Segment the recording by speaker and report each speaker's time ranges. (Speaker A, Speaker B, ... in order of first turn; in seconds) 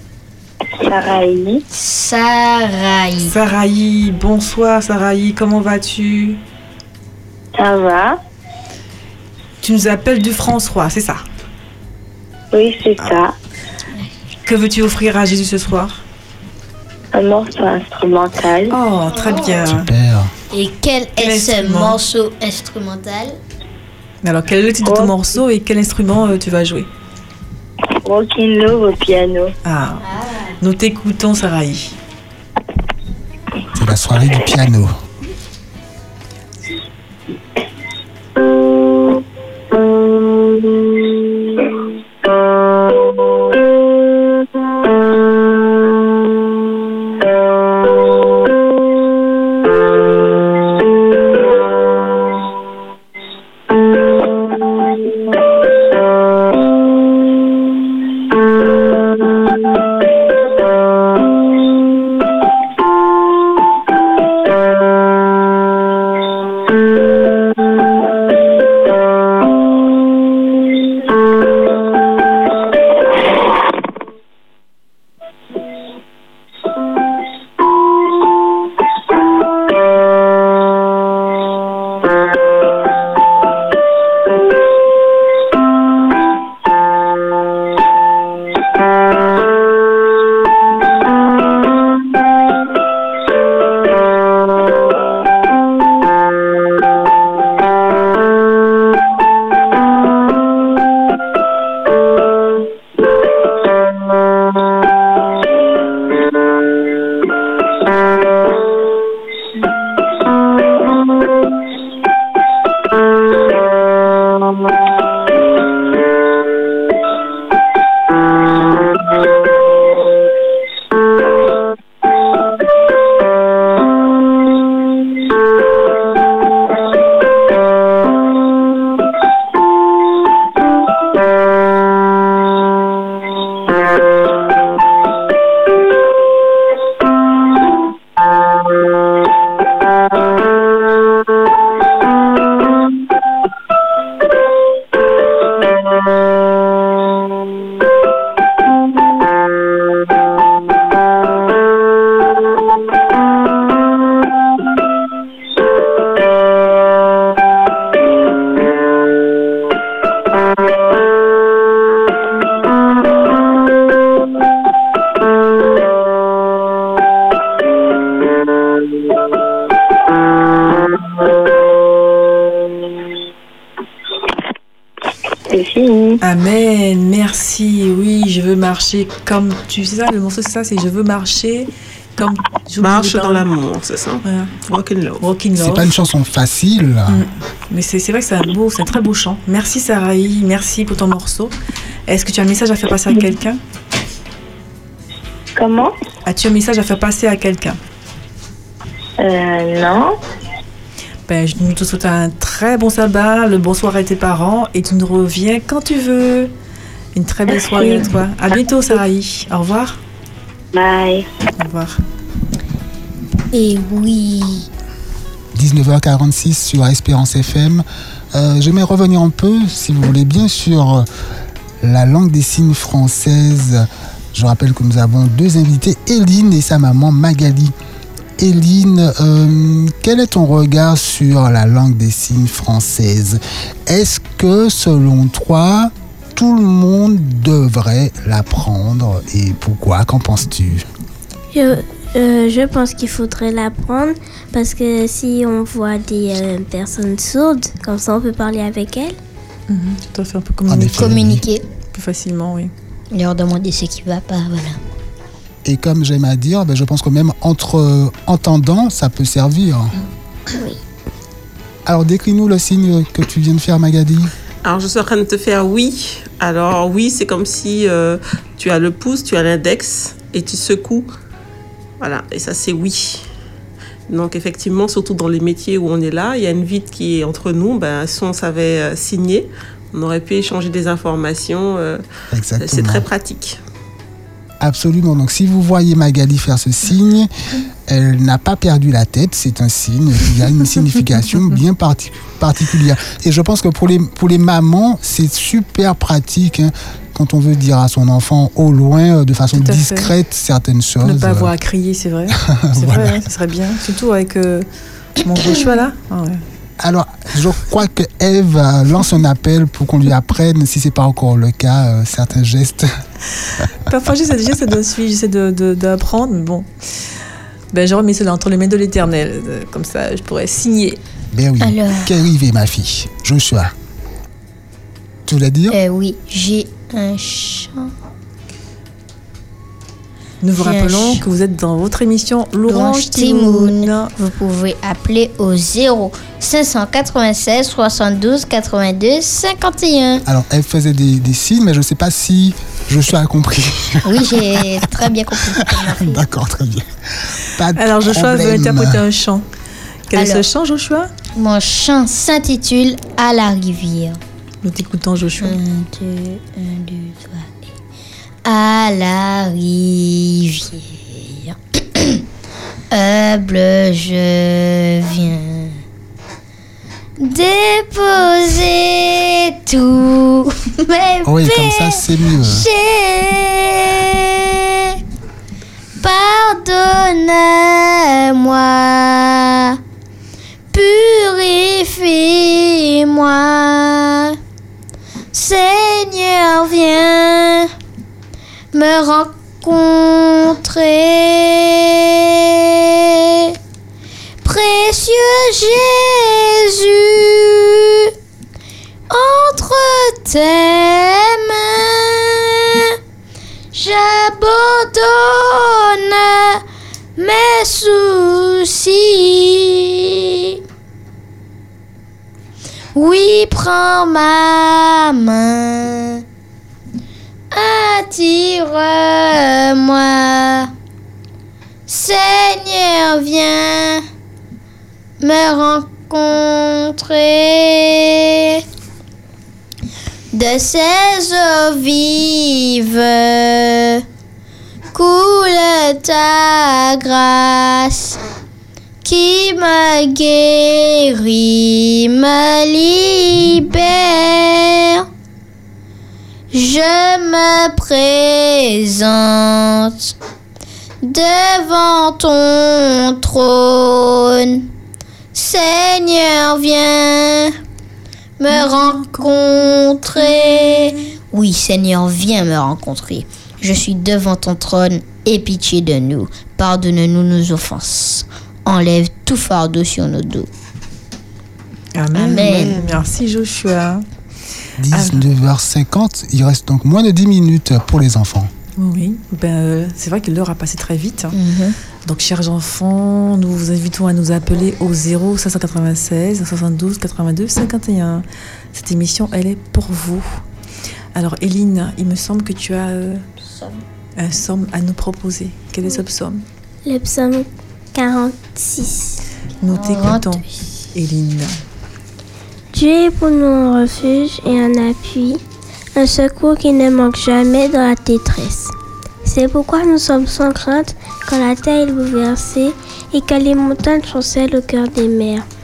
Speaker A: 0.8-1.6, 7.5-8.2, 12.5-13.3, 17.1-18.8, 24.8-25.1, 28.0-29.5, 175.5-176.2, 195.6-195.9, 199.2-200.2, 207.6-208.1, 210.7-211.3
Speaker B: 1.7-3.3, 19.2-19.6, 20.5-23.4, 30.0-30.6, 213.5-214.7, 250.9-251.6, 253.1-254.8, 321.6-322.1, 325.7-327.9, 330.6-331.2, 332.7-340.2, 344.1-346.2, 350.1-350.4, 351.4-354.2, 355.4-357.7, 358.4-362.2, 362.9-365.8, 367.2-375.0, 376.0-379.8, 380.7-384.4, 385.3-387.7, 388.7-393.6, 394.4-398.1, 399.1-403.0, 403.7-406.6, 407.2-410.6, 412.9-416.2, 417.5-420.7, 421.9-424.0, 425.2-428.6, 430.3-434.0, 434.9-438.2, 439.0-445.1, 446.5-450.1, 451.0-454.7, 455.3-457.6, 458.4-470.5, 472.1-472.9, 481.3-481.8, 493.4-493.8, 499.7-500.5
Speaker C: 3.2-6.4, 9.6-11.2, 14.5-16.0, 18.7-19.9, 21.2-22.0, 24.2-26.9, 29.6-30.0, 30.6-32.0, 176.2-183.5, 184.2-184.5, 185.2-186.0, 187.1-191.5, 192.1-193.6, 196.2-197.8, 201.3-206.5, 207.1-210.0, 211.6-212.0, 249.7-251.4, 251.9-252.7, 299.6-300.1, 301.0-304.7, 305.2-306.4, 313.9-316.7, 317.7-321.0, 330.4-334.1, 347.8-349.4, 350.1-351.1, 354.6-355.6, 458.5-459.4, 460.2-461.0, 471.9-474.1, 474.9-475.3, 478.8-481.4, 482.1-490.4, 491.1-493.2, 494.2-496.4, 499.6-501.5
Speaker D: 19.7-20.3, 33.7-35.0, 185.6-187.2, 215.5-221.1, 221.8-227.7, 228.4-240.9, 250.7-251.4, 255.7-259.9, 261.9-264.3, 282.3-283.1, 284.6-287.3, 287.9-301.5, 302.3-303.2, 306.8-312.9, 321.3-323.7, 325.3-325.8, 340.3-344.6, 345.6-349.1, 371.2-372.7, 474.8-478.5
Speaker E: 182.8-185.2, 264.6-271.1, 272.0-273.3, 274.1-282.0, 282.6-283.6
Speaker F: 241.5-249.2, 260.5-260.8, 496.9-499.2, 502.7-505.4, 505.9-508.7, 509.2-515.5